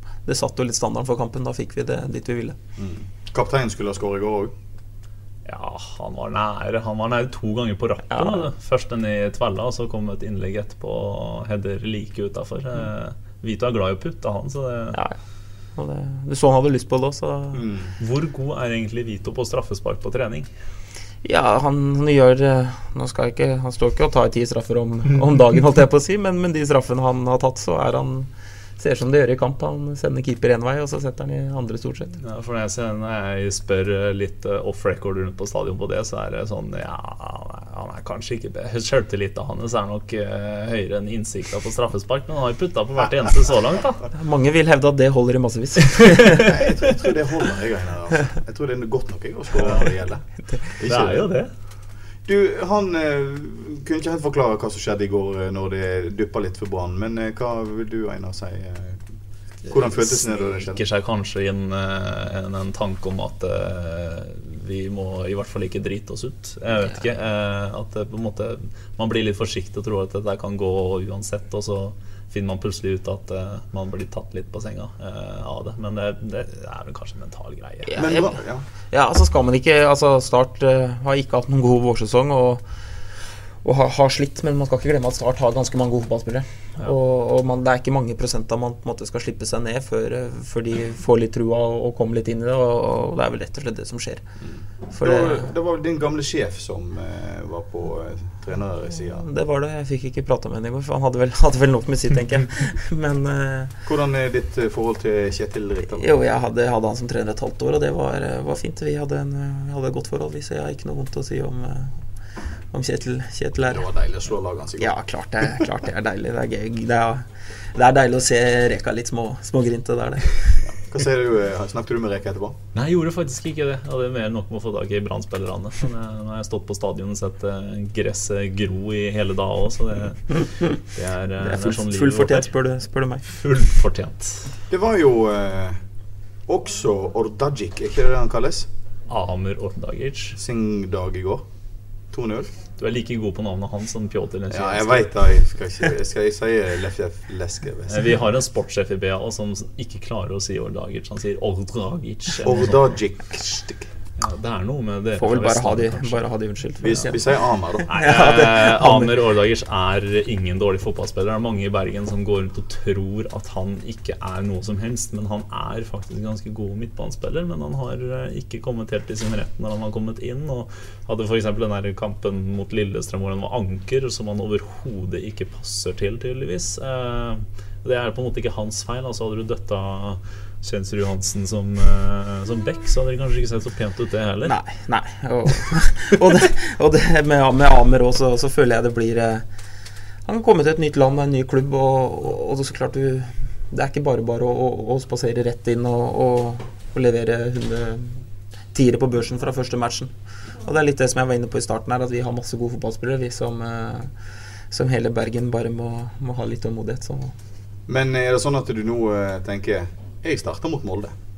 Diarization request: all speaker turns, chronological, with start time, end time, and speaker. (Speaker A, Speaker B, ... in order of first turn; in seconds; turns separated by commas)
Speaker A: 0.2-2.6, Speaker B: 2.8-4.5, Speaker C: 5.4-15.0, Speaker A: 8.1-8.5, Speaker A: 15.7-17.6, Speaker B: 17.5-17.9, Speaker C: 18.0-20.5, Speaker A: 21.2-32.1, Speaker C: 32.2-44.0, Speaker A: 44.1-46.5, Speaker C: 46.2-46.5, Speaker B: 46.4-51.3, Speaker C: 50.8-51.5, Speaker B: 52.2-59.0, Speaker B: 59.7-60.8, Speaker C: 59.7-77.9, Speaker A: 77.9-78.4, Speaker B: 78.0-78.6, Speaker A: 78.9-82.7, Speaker A: 83.6-94.2, Speaker B: 94.4-99.3, Speaker A: 94.9-95.5, Speaker A: 99.1-103.7, Speaker B: 103.8-106.2, Speaker A: 106.0-112.1, Speaker A: 112.7-113.9, Speaker B: 113.7-114.9, Speaker A: 114.8-120.6, Speaker B: 120.6-122.6, Speaker C: 122.7-132.5, Speaker A: 131.4-133.2, Speaker C: 133.2-134.5, Speaker B: 134.7-135.8, Speaker B: 136.5-138.7, Speaker C: 139.1-140.3, Speaker B: 140.3-141.4, Speaker B: 142.1-142.6, Speaker C: 142.8-145.1, Speaker B: 144.5-148.1, Speaker C: 147.9-152.9, Speaker B: 152.4-153.9, Speaker C: 154.2-156.3, Speaker A: 155.2-159.2, Speaker B: 156.8-157.9, Speaker C: 157.9-184.6, Speaker A: 184.4-189.4, Speaker A: 190.2-200.1, Speaker A: 200.6-204.1, Speaker A: 204.7-207.3, Speaker B: 207.9-211.1